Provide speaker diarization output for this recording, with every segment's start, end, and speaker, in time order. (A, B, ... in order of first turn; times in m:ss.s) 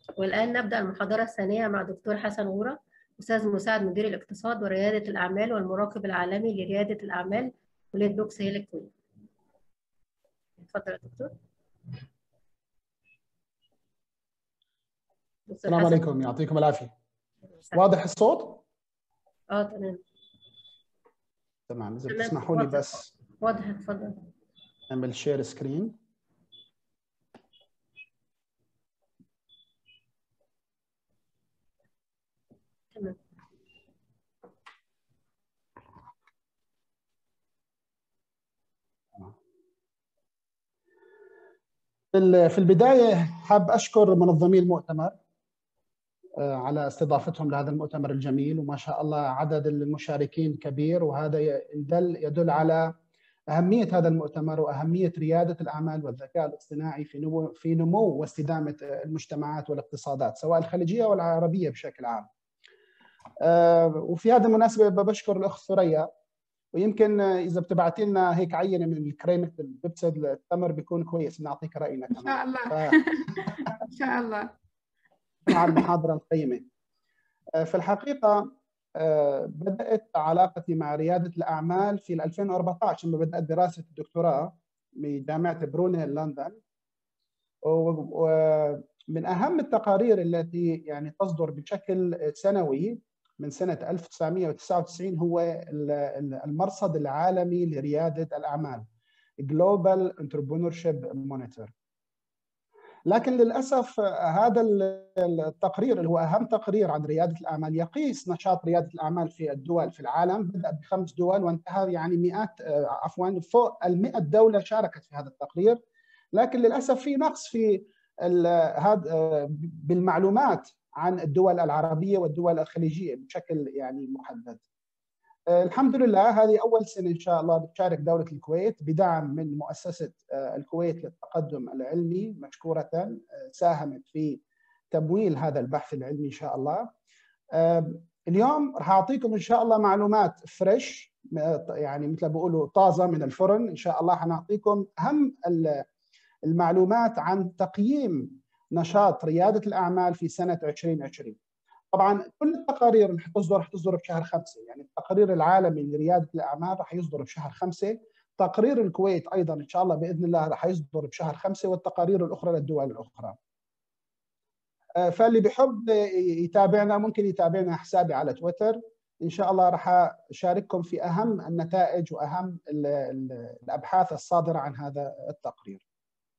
0:00.2-0:08.9 A
0:10.6-0:11.4 A
0:15.5-0:16.1 A
0:15.7-0:16.9 B
0:17.7-0:18.6 B
0:19.5-0:20.0 A
0:21.7-0:23.1 B
0:22.1-0:24.2 A
0:24.9-0:25.9 B
0:42.1-0:45.2 B
0:46.4-0:52.9 B
0:53.5-1:02.3 B
1:03.4-1:06.1 B
1:06.7-1:13.6 B
1:12.2-1:14.5 C
1:15.5-1:16.6 B
1:17.6-1:26.6 B
1:27.7-1:38.9 B
1:39.4-1:41.7 B
1:43.1-1:55.8 B
1:56.3-2:04.6 B
2:05.5-2:16.9 B
2:17.6-2:25.8 B
2:26.5-2:31.4 B
2:31.9-2:43.4 B
2:45.0-2:55.8 B